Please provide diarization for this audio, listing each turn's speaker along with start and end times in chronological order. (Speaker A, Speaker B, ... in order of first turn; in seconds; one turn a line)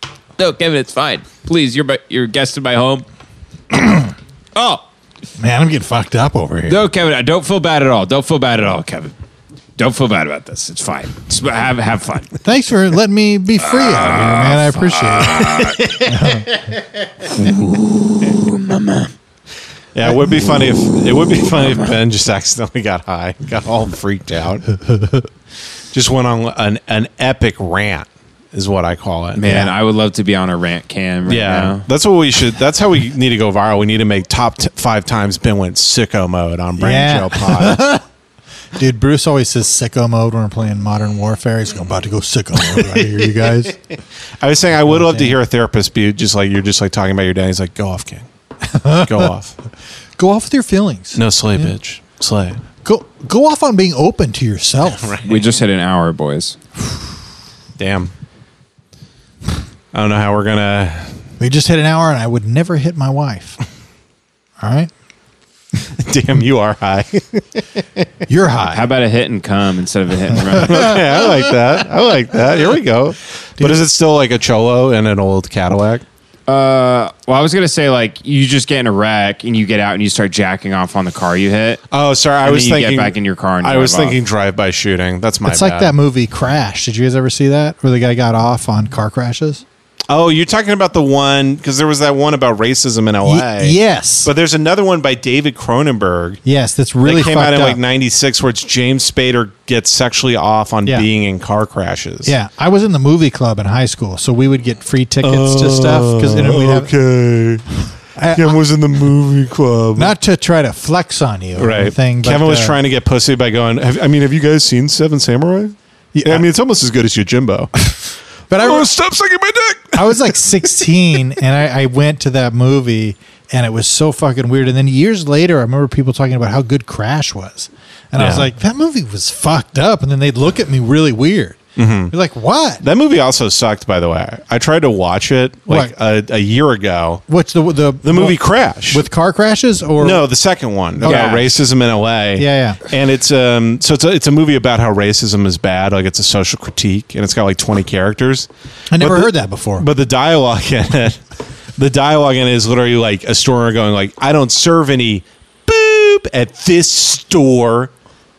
Speaker A: 0.4-3.0
Speaker A: 4.5-4.8
Speaker B: 5.4-6.8
Speaker A: 6.7-9.1
Speaker A: 9.8-12.3
Speaker B: 12.4-15.4
Speaker A: 13.7-15.8
Speaker C: 15.2-16.4
Speaker B: 16.1-16.5
Speaker C: 17.4-17.7
Speaker A: 17.4-19.1
Speaker C: 19.9-24.7
Speaker A: 21.6-21.9
Speaker C: 25.9-29.5
Speaker A: 29.4-31.9
Speaker B: 29.4-29.7
Speaker C: 31.2-37.8
Speaker B: 36.8-38.0
Speaker B: 38.8-43.8
Speaker C: 42.7-43.7
Speaker C: 44.4-48.2
Speaker B: 44.9-45.3
Speaker B: 48.7-49.3
Speaker C: 49.0-49.5
Speaker B: 50.2-51.7
Speaker C: 51.1-52.6
Speaker B: 52.8-55.1
Speaker C: 55.0-55.5
Speaker A: 55.2-56.6
Speaker C: 57.8-58.1
Speaker C: 59.9-61.2
Speaker B: 61.4-63.6
Speaker B: 64.6-64.9
Speaker C: 65.9-68.0
Speaker B: 68.3-68.9
Speaker A: 68.7-70.9
Speaker C: 70.6-76.0
Speaker B: 70.7-71.4
Speaker B: 73.6-73.8
Speaker A: 76.5-81.8
Speaker C: 81.9-85.9
Speaker A: 82.4-84.2
Speaker B: 85.5-89.6
Speaker C: 90.1-96.4
Speaker B: 93.2-94.3
Speaker B: 96.4-97.8
Speaker C: 97.0-102.3
Speaker B: 102.2-106.9
Speaker C: 105.2-107.7
Speaker B: 108.2-108.6
Speaker C: 108.3-110.1
Speaker B: 110.0-112.8
Speaker C: 111.6-117.7
Speaker B: 116.1-116.5
Speaker B: 118.5-118.9
Speaker C: 118.5-120.4
Speaker B: 119.9-132.8
Speaker C: 128.1-128.5
Speaker C: 131.8-132.1
Speaker C: 132.8-137.2
Speaker B: 137.3-140.2
Speaker C: 138.0-139.1
Speaker C: 140.0-151.2
Speaker B: 141.0-141.6
Speaker A: 141.0-141.5
Speaker B: 142.3-142.8
Speaker B: 148.9-149.9
Speaker C: 151.8-157.9